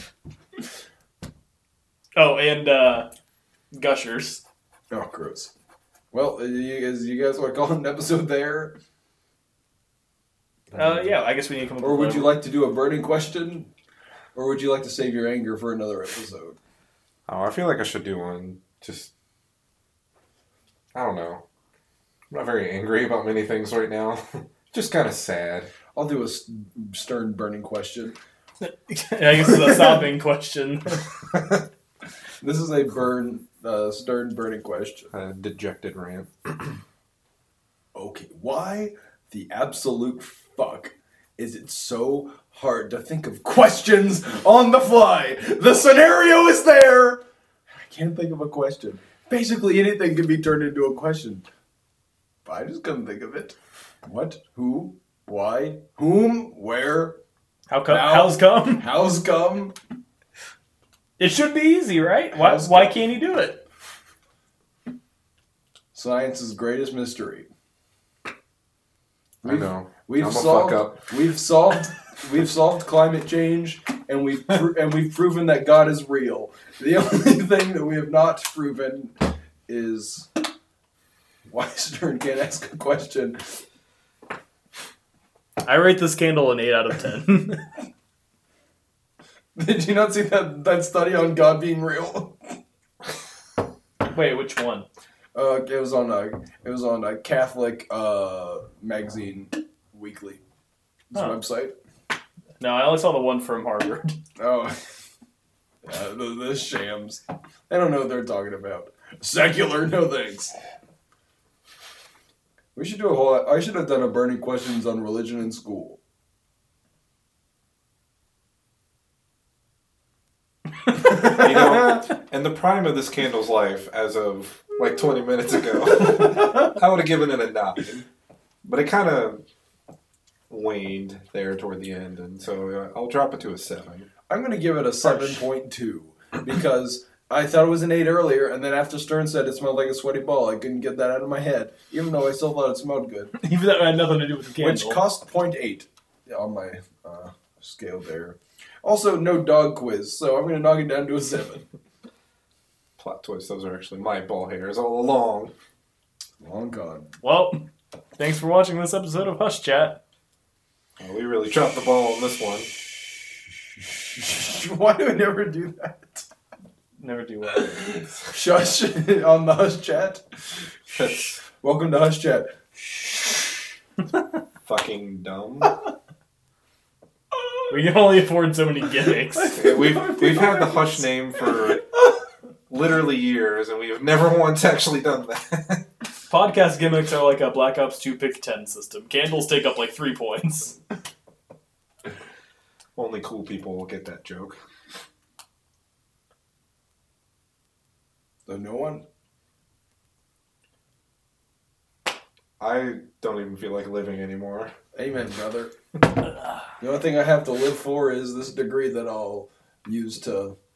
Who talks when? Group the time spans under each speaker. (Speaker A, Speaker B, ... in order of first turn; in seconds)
Speaker A: 2.1-3.1, 3.7-4.4, 10.7-12.4, 28.6-31.1, 57.7-58.9, 61.2-63.6, 85.6-87.8, 94.1-94.9, 101.1-101.4, 102.6-104.2, 143.4-145.0, 157.2-157.7, 158.2-160.0, 167.0-168.0, 177.7-179.6, 186.3-190.8
Speaker B: 4.9-5.5, 6.1-8.8, 11.8-13.7, 14.3-16.6, 25.9-28.2, 32.4-35.1, 38.0-51.5, 52.5-57.2, 57.9-59.8, 62.3-63.0, 65.9-67.5, 69.4-80.5, 81.5-83.6, 89.6-92.4, 95.3-100.4, 101.1-101.8, 104.4-104.8, 105.8-110.6, 112.8-116.0, 134.3-143.3, 144.6-151.7, 156.4-157.2, 163.8-166.3, 167.5-170.2, 171.6-173.2, 177.4-177.7, 179.3-182.0, 198.5-199.1, 204.9-205.7, 206.8-210.6
Speaker C: 17.3-19.1, 20.9-21.4, 22.3-25.7, 35.1-36.8, 69.4-71.0, 121.0-128.1, 128.7-129.4, 130.5-134.1, 153.0-155.5, 161.0-162.7, 170.9-171.4, 174.7-175.8, 179.5-181.8, 182.7-185.8, 193.0-194.6, 202.6-204.7